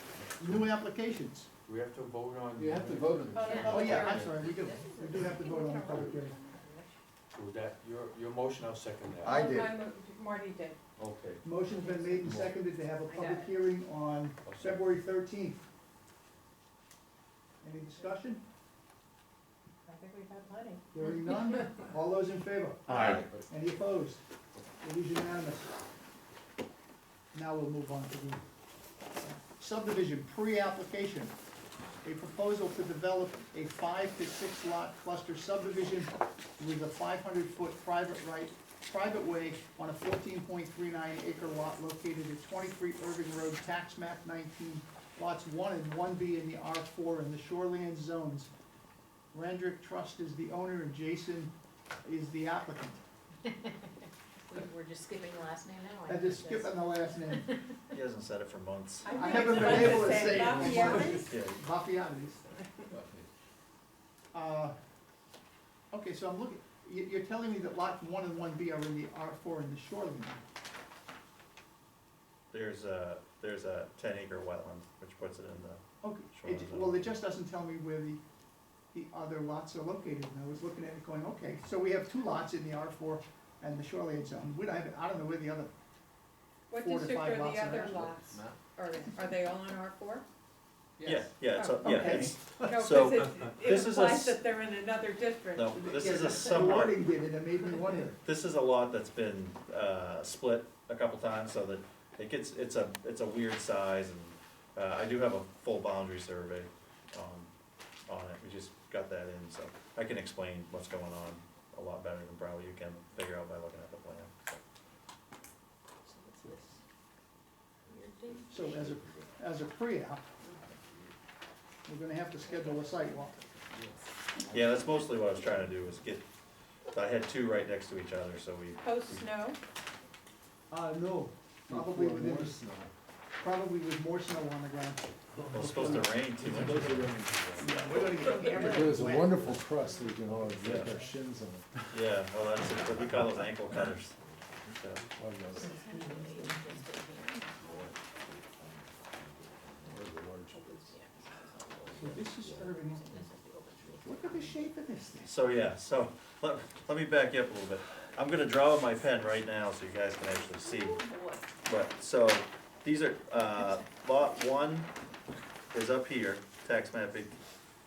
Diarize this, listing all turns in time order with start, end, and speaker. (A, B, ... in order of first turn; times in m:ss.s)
0:00.4-0:01.5 A
0:01.7-0:04.3 B
0:02.6-0:04.2 C
0:03.4-0:04.3 D
0:03.4-0:06.7 E
0:03.6-0:06.4 A
0:05.9-0:06.2 B
0:06.7-0:06.9 D
0:07.3-0:09.6 B
0:09.3-0:09.7 C
0:09.3-0:10.8 D
0:11.0-0:11.7 B
0:11.4-0:15.6 A
0:11.7-0:12.3 D
0:13.2-0:13.5 E
0:14.4-0:14.9 B
0:17.6-0:18.4 A
0:19.8-0:20.8 D
0:20.9-0:24.2 A
0:22.9-0:23.3 F
0:23.1-0:23.4 B
0:24.8-0:25.7 A
0:27.3-0:28.4 A
0:29.2-0:31.3 A
0:32.0-0:48.5 A
0:49.3-0:51.5 A
0:52.0-0:53.0 A
0:54.5-0:57.8 E
0:56.0-0:57.5 A
0:57.9-1:00.5 F
0:59.0-1:01.3 D
0:59.1-1:02.5 A
1:00.4-1:01.1 C
1:01.3-1:01.6 F
1:02.9-1:03.3 C
1:04.3-1:04.8 A
1:05.9-1:10.4 A
1:12.5-1:17.1 F
1:16.0-1:18.2 A
1:18.9-1:25.7 A
1:26.7-1:30.2 D
1:26.8-1:28.2 A
1:28.2-1:28.6 C
1:31.0-1:31.3 C
1:31.0-1:34.4 F
1:31.5-1:35.7 D
1:31.8-1:32.8 A
1:35.6-1:37.0 F
1:35.7-1:38.2 A
1:38.2-1:47.5 F
1:48.1-1:54.6 F
1:56.0-1:56.8 E
1:57.9-1:59.2 E
1:58.5-2:00.2 A
2:00.4-2:00.8 E
2:01.9-2:03.4 A
2:02.3-2:05.0 E
2:04.5-2:06.2 F
2:06.9-2:09.2 F
2:08.8-2:09.6 D
2:10.7-2:12.6 A
2:11.7-2:12.9 C
2:13.4-2:16.7 A
2:15.5-2:17.8 C
2:15.5-2:17.1 F
2:17.6-2:19.6 A
2:18.1-2:21.1 E
2:18.4-2:21.7 C
2:20.6-2:20.9 F
2:21.9-2:25.0 F
2:25.2-2:25.8 C
2:25.5-2:34.7 E
2:25.6-2:26.8 A
2:29.9-2:30.9 C
2:31.9-2:33.1 A
2:34.0-2:35.4 A
2:35.3-2:41.1 F
2:40.6-2:41.5 E
2:41.6-2:44.9 F
2:45.7-2:47.4 F